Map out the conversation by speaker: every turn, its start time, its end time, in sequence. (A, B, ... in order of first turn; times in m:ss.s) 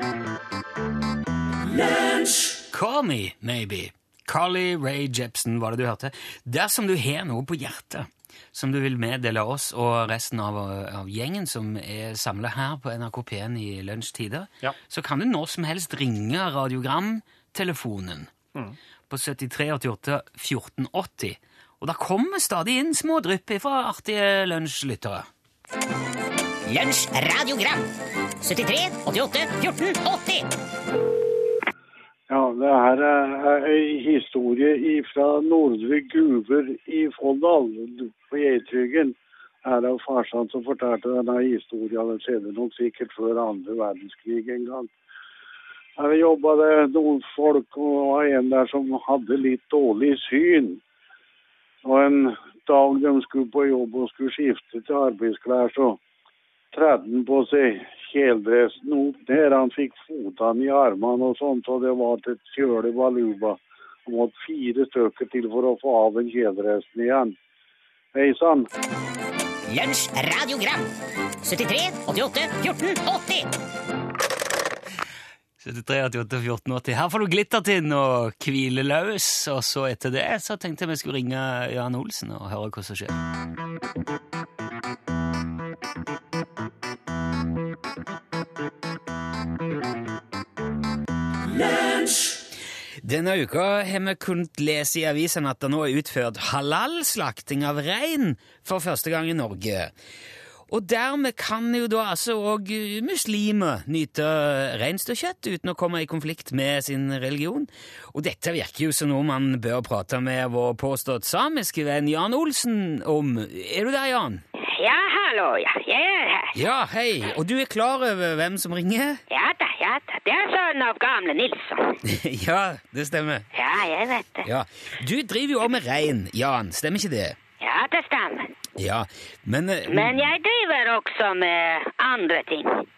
0:02.7-0:18.3 A
0:19.1-0:25.3 A
0:26.6-0:30.5 B
0:32.3-0:44.9 C
0:46.0-0:50.8 C
0:51.8-0:56.0 C
0:56.7-1:07.3 C
1:08.1-1:08.7 C
1:09.7-1:10.9 B
1:11.4-1:13.5 B
1:15.6-1:23.2 A
1:33.0-1:39.9 A
1:40.7-1:54.4 A
1:54.6-1:56.6 D
1:56.5-1:59.2 A
1:59.3-2:02.0 D
2:02.0-2:03.5 A
2:03.5-2:04.5 D
2:04.4-2:07.4 A
2:07.6-2:08.5 D
2:08.8-2:10.2 A
2:09.9-2:12.8 D